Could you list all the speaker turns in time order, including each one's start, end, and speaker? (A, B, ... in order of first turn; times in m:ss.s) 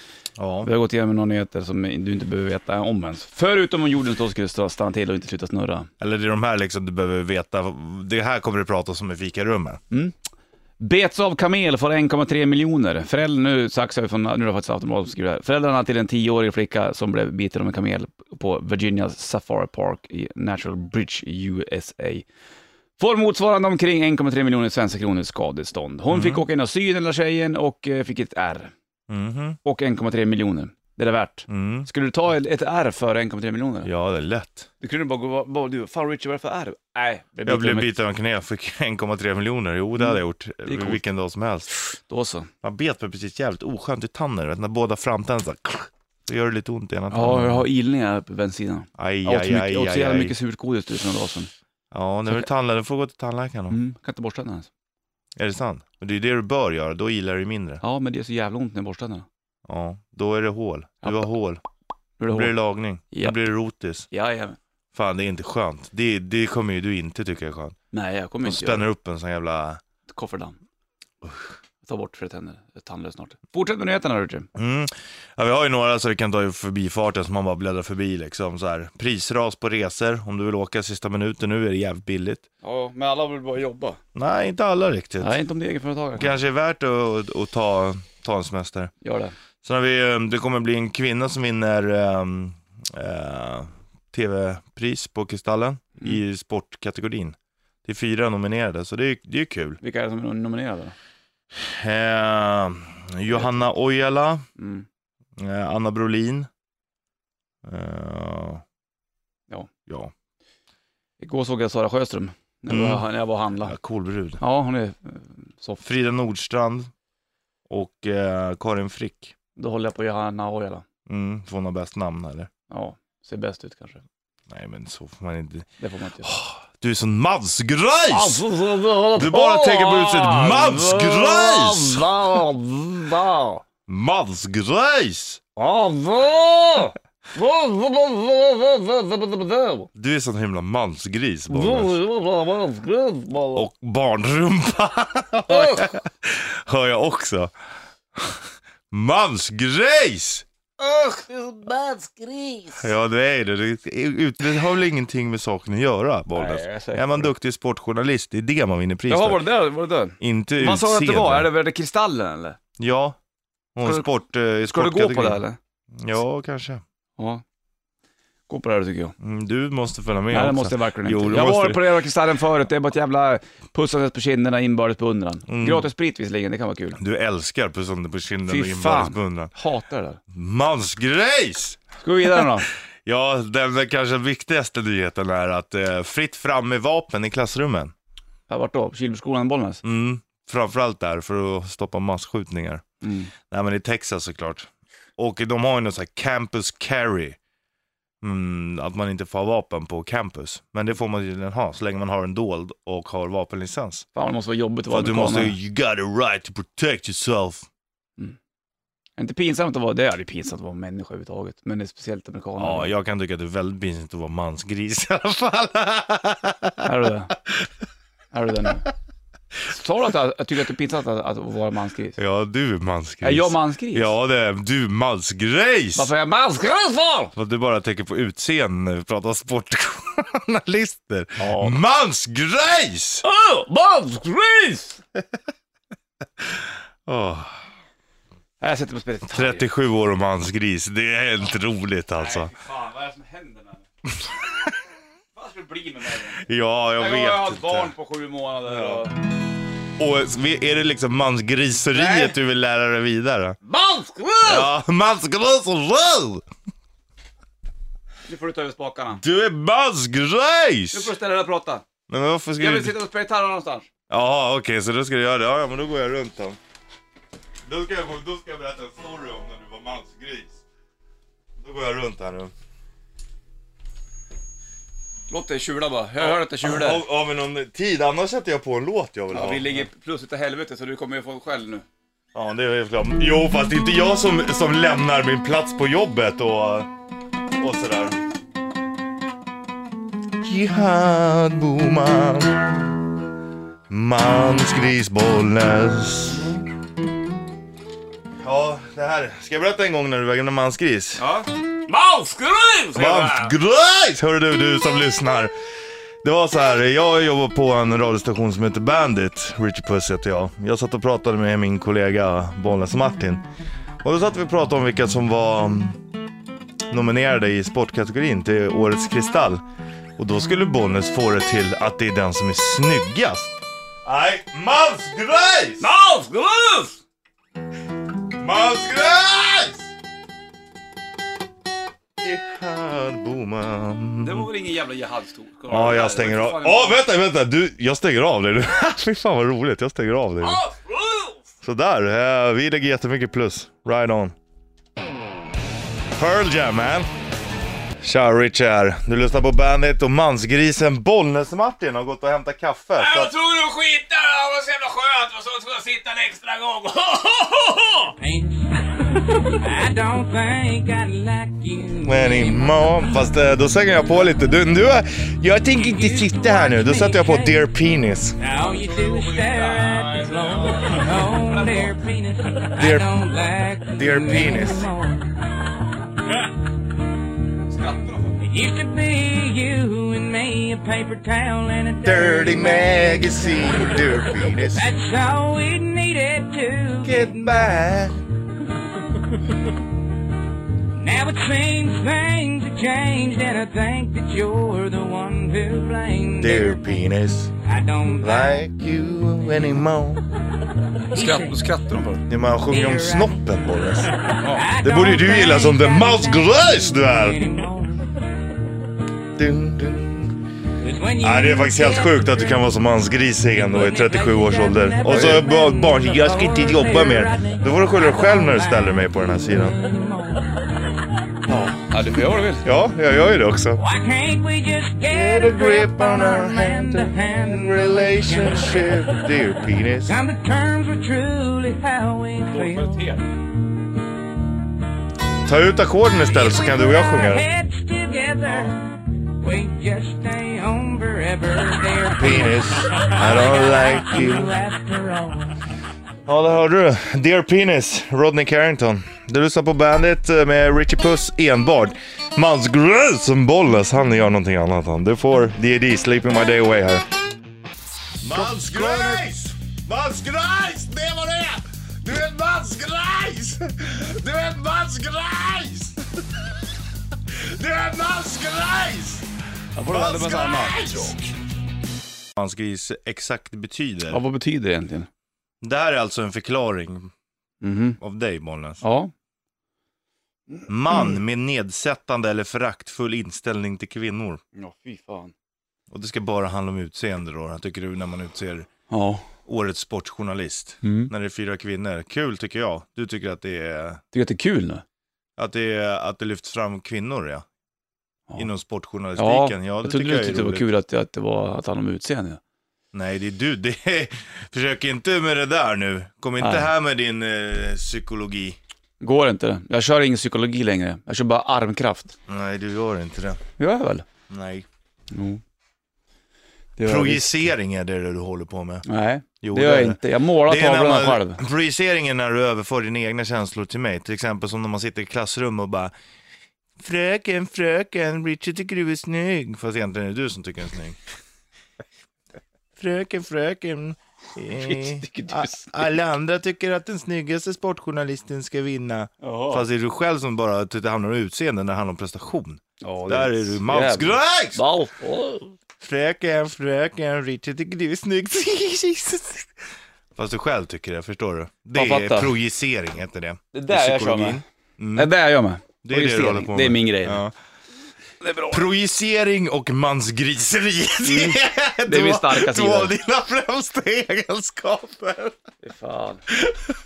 0:00.4-0:00.7 A
0:00.6-0:05.9 B
0:06.0-0:09.8 A
0:10.8-0:22.2 B
0:23.0-0:28.7 B
0:26.1-0:26.5 A
0:29.1-0:29.6 A
0:29.6-0:33.9 B
0:31.5-0:31.9 A
0:33.8-0:34.7 A
0:34.8-0:37.9 B
0:37.4-0:41.7 A
0:40.0-0:41.0 B
0:41.9-0:42.5 B
0:42.6-0:47.7 A
0:47.1-0:51.5 B
0:49.0-0:50.3 A
0:51.9-0:53.8 A
0:53.7-0:54.7 B
0:55.4-0:57.8 A
0:57.8-0:59.2 B
0:59.7-1:01.6 A
1:02.2-1:02.5 B
1:02.3-1:04.1 A
1:03.1-1:03.4 B
1:04.1-1:04.6 B
1:04.9-1:07.7 A
1:07.9-1:08.9 B
1:08.4-1:09.8 A
1:10.1-1:10.6 B
1:11.2-1:11.5 A
1:11.8-1:14.5 B
1:14.6-1:22.4 A
1:22.6-1:24.0 B
1:24.1-1:25.4 A
1:25.2-1:26.4 B
1:26.2-1:28.9 A
1:29.0-1:29.4 B
1:29.6-1:39.8 A
1:39.8-1:41.0 B
1:41.6-1:44.4 A
1:44.6-1:44.8 B
1:45.4-1:46.5 A
1:47.6-1:48.6 A
1:49.9-1:50.1 A
1:51.2-1:53.8 B
1:52.7-1:53.0 A
1:53.6-1:54.4 A
1:54.4-1:55.8 B
1:55.8-1:56.9 A
1:57.7-1:59.3 A
1:59.6-2:00.8 B
2:01.1-2:02.5 A
2:02.7-2:04.0 B
2:04.5-2:05.7 A
2:05.8-2:06.3 B
2:06.2-2:08.4 A
2:08.1-2:13.6 B
2:09.1-2:12.1 A
2:13.9-2:15.4 A
2:15.6-2:19.9 B
2:19.9-2:22.0 A
2:21.5-2:23.7 B
2:23.5-2:27.5 A
2:25.5-2:26.0 B
2:28.1-2:30.4 A
2:30.8-2:32.9 B
2:32.8-2:39.4 A
2:36.3-2:37.3 B
2:39.1-2:42.6 B
2:40.2-2:41.5 A
2:42.8-2:43.2 A
2:43.7-2:45.4 A
2:43.8-2:44.1 B
2:44.7-2:45.6 B
2:46.0-2:46.8 A
2:47.2-2:47.4 B
2:48.5-2:49.1 B
2:49.2-2:51.9 A
2:50.3-2:57.0 B
2:55.5-2:55.9 A
2:57.0-2:59.5 A
2:58.5-3:00.2 B
3:00.3-3:01.8 A
3:02.0-3:02.7 B
3:03.0-3:07.9 A
3:08.5-3:09.8 B
3:09.8-3:12.8 A
3:13.0-3:13.3 B
3:13.5-3:17.4 A
3:18.2-3:24.0 A
3:24.1-3:25.6 B
3:24.9-3:27.7 A
3:29.2-3:32.9 B
3:32.6-3:36.9 A
3:36.8-3:37.4 B
3:38.3-3:38.9 B
3:39.6-3:42.2 B
3:42.2-3:46.1 A
3:43.2-3:44.1 B
3:46.0-3:47.3 B
3:47.3-3:53.2 A
3:51.4-3:51.8 B
3:53.2-3:55.0 B
3:56.6-3:57.5 A
3:58.6-3:59.6 B
3:59.3-4:02.5 A
4:02.1-4:03.9 B
4:05.3-4:09.2 B
4:06.3-4:07.9 A
4:08.7-4:09.0 A
4:10.0-4:13.6 A
4:11.9-4:12.4 B
4:13.6-4:14.7 B
4:14.4-4:16.4 A
4:18.2-4:19.2 B
4:19.2-4:21.1 A
4:20.9-4:21.8 B
4:22.1-4:22.9 A
4:22.6-4:23.9 B
4:24.1-4:26.6 A
4:27.7-4:30.6 A
4:31.6-4:32.5 A
4:35.3-4:37.0 B
4:36.2-4:39.9 A
4:39.3-4:41.8 B
4:42.3-4:46.9 A
4:47.6-4:48.2 A
4:50.4-4:53.0 A
4:53.9-4:56.6 A
4:58.4-5:01.3 A
5:01.2-5:03.5 B
5:02.9-5:05.5 A
5:06.2-5:13.4 A
5:14.0-5:16.0 A
5:16.9-5:19.6 A
5:20.2-5:25.9 A
5:25.8-5:27.0 B
5:28.4-5:29.9 A
5:32.2-5:34.5 A
5:34.2-5:37.1 B
5:35.7-5:40.6 A
5:40.4-5:41.4 B
5:41.6-5:44.3 A
5:46.2-5:47.1 A
5:48.0-5:53.3 A
5:53.0-5:58.2 B
5:58.2-6:02.8 C
6:02.0-6:08.4 A
6:06.0-6:07.5 C
6:08.4-6:15.4 C
6:08.4-6:12.1 B
6:12.7-6:13.2 A
6:13.9-6:14.9 A
6:17.7-6:18.4 B
6:18.4-6:23.7 C
6:22.0-6:24.9 A
6:24.7-6:27.6 C
6:27.0-6:28.2 A
6:30.9-6:36.8 C
6:36.4-6:37.5 A
6:37.7-6:38.3 C
6:38.2-6:40.2 A
6:41.1-6:42.2 B
6:41.1-6:41.6 C
6:42.3-6:44.1 A
6:42.7-6:43.3 C
6:44.4-6:44.7 B
6:44.5-6:48.1 C
6:44.8-6:47.5 A
6:49.4-6:50.4 A
6:50.8-6:52.3 C
6:51.2-6:59.8 A
6:53.7-6:58.9 C
6:55.1-6:55.4 B
6:59.6-7:00.5 C
7:01.5-7:02.6 B
7:02.6-7:03.8 A
7:03.8-7:08.9 C
7:05.0-7:10.2 A
7:10.1-7:13.0 C
7:12.4-7:13.2 B
7:15.4-7:17.5 A
7:16.3-7:25.5 C
7:22.2-7:24.6 A
7:26.2-7:37.0 A
7:38.2-7:46.6 A
7:38.2-7:39.2 B
7:47.1-7:49.3 A
7:49.7-7:51.1 B
7:49.8-7:51.3 A
7:52.4-7:54.2 A
7:54.1-7:55.1 B
7:55.6-7:57.1 A
7:57.6-7:58.0 B
7:58.0-7:58.8 A
7:58.8-7:59.1 B
8:00.5-8:01.2 B
8:00.7-8:04.4 A
8:04.6-8:05.3 B
8:05.9-8:08.7 A
8:08.9-8:09.2 B
8:09.4-8:14.0 A
8:10.8-8:11.1 B
8:14.1-8:14.8 B
8:15.4-8:17.4 A
8:18.4-8:20.7 A
8:19.2-8:22.4 B
8:22.9-8:28.6 A
8:26.4-8:26.7 B
8:29.0-8:32.1 B
8:32.3-8:33.4 A
8:33.6-8:34.0 B
8:34.3-8:34.6 A
8:35.1-8:35.4 B
8:36.8-8:37.4 B
8:36.8-8:38.8 A
8:38.8-8:41.4 B
8:39.4-8:45.9 A
8:46.8-8:51.0 A
8:52.8-9:04.6 A
8:54.5-8:55.9 B
8:59.2-8:59.7 B
9:02.8-9:05.5 B
9:05.8-9:09.5 A
9:10.2-9:15.1 A
9:11.7-9:12.3 B
9:13.5-9:14.4 B
9:15.0-9:17.2 B
9:15.8-9:17.3 A
9:18.2-9:18.6 B
9:18.5-9:25.4 A
9:21.0-9:22.9 B
9:25.6-9:26.2 B
9:26.4-9:26.7 A